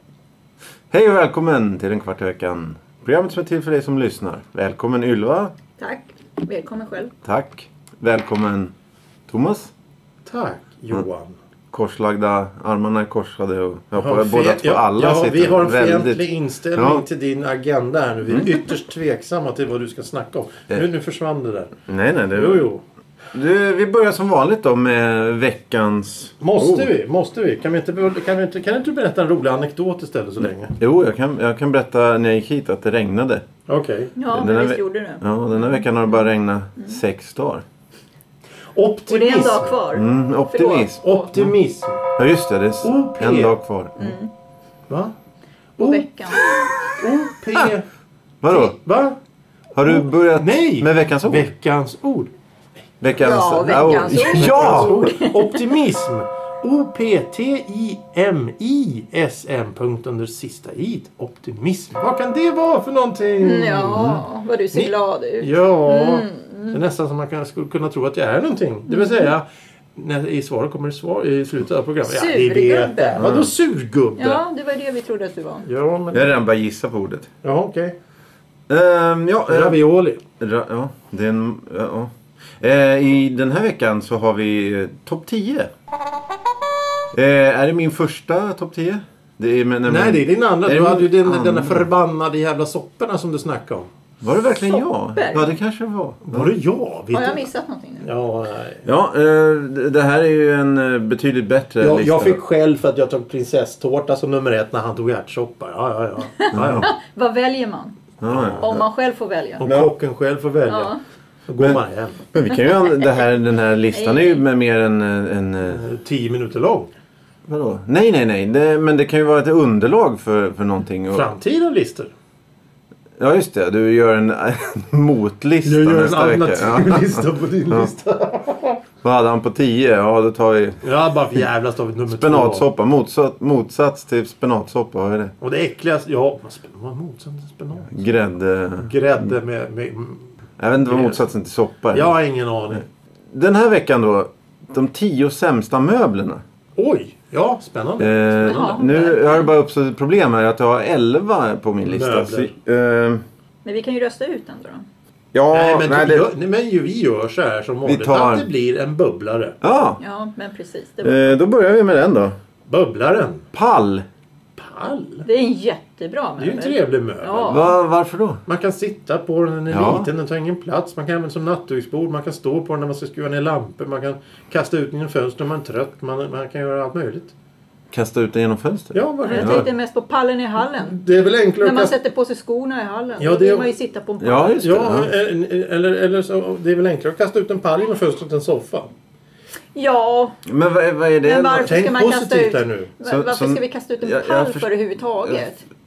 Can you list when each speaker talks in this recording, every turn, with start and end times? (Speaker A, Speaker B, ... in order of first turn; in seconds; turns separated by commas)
Speaker A: 0.9-5.5, Speaker B: 5.8-7.1, Speaker A: 7.2-8.7, Speaker A: 9.3-9.7, Speaker C: 10.3-11.4, Speaker A: 11.7-16.2, Speaker C: 13.9-21.8, Speaker A: 16.8-17.0, Speaker A: 21.9-22.7, Speaker C: 22.3-22.8, Speaker A: 23.3-26.9, Speaker C: 26.4-30.8, Speaker A: 30.8-33.5, Speaker C: 33.7-34.1, Speaker B: 34.2-36.2, Speaker A: 34.3-37.6, Speaker C: 38.7-39.8, Speaker B: 39.1-41.3, Speaker A: 39.9-41.5, Speaker C: 41.0-42.0, Speaker A: 42.2-44.1, Speaker C: 42.8-43.6, Speaker B: 44.0-44.3, Speaker C: 45.8-47.9, Speaker B: 45.8-46.7, Speaker A: 48.4-48.8, Speaker C: 48.5-49.2, Speaker A: 49.8-51.5, Speaker C: 49.8-52.3, Speaker A: 53.0-55.0, Speaker B: 53.2-55.6, Speaker C: 53.9-64.2, Speaker B: 63.4-66.8, Speaker C: 64.7-74.4, Speaker B: 68.9-69.3, Speaker B: 72.0-73.3, Speaker A: 73.2-73.5, Speaker B: 74.2-75.7, Speaker C: 75.7-76.3, Speaker A: 76.1-77.3, Speaker C: 77.4-78.0, Speaker A: 78.7-79.8, Speaker C: 79.5-80.2, Speaker A: 80.4-85.7, Speaker A: 87.1-91.9, Speaker C: 89.8-93.9, Speaker A: 94.2-96.5, Speaker B: 94.5-95.5, Speaker C: 96.3-97.5, Speaker B: 97.1-98.1, Speaker C: 98.0-98.8, Speaker A: 98.8-102.4, Speaker C: 101.8-106.9, Speaker B: 106.3-108.0, Speaker A: 106.5-106.9, Speaker A: 108.2-108.8, Speaker C: 108.3-108.7, Speaker B: 108.6-109.7, Speaker C: 109.6-111.0, Speaker A: 109.7-109.9, Speaker B: 110.7-111.0, Speaker C: 111.5-112.2, Speaker A: 112.3-115.8, Speaker B: 113.9-114.4, Speaker C: 115.7-116.9, Speaker A: 117.5-121.3, Speaker C: 121.1-122.1, Speaker A: 123.2-127.9, Speaker C: 125.7-128.8, Speaker A: 129.0-130.8, Speaker C: 130.8-132.7, Speaker A: 132.1-135.3, Speaker C: 135.4-138.0, Speaker A: 137.9-139.3, Speaker C: 138.8-140.3, Speaker A: 140.6-142.1, Speaker C: 140.8-141.2, Speaker C: 141.9-142.8, Speaker A: 143.3-146.4, Speaker C: 146.8-148.7, Speaker A: 148.0-153.2, Speaker B: 148.5-149.5, Speaker C: 151.9-152.5, Speaker B: 153.6-154.9, Speaker A: 155.3-156.3, Speaker C: 155.5-159.6, Speaker A: 157.8-158.5, Speaker A: 159.6-160.0, Speaker B: 160.0-161.4, Speaker A: 161.0-162.4, Speaker C: 162.7-163.5, Speaker A: 163.5-164.1, Speaker C: 164.6-165.3, Speaker B: 165.2-167.7, Speaker C: 166.4-167.6, Speaker A: 167.5-168.4, Speaker C: 168.5-177.3, Speaker A: 169.7-170.1, Speaker A: 177.9-179.7, Speaker C: 178.9-179.7, Speaker B: 179.2-181.0, Speaker C: 180.7-181.9, Speaker B: 181.6-184.6, Speaker C: 183.2-183.7, Speaker A: 184.2-185.1, Speaker C: 184.6-188.9, Speaker B: 189.8-190.4, Speaker A: 190.4-191.7, Speaker B: 191.2-195.6, Speaker C: 191.7-192.9, Speaker A: 193.1-194.7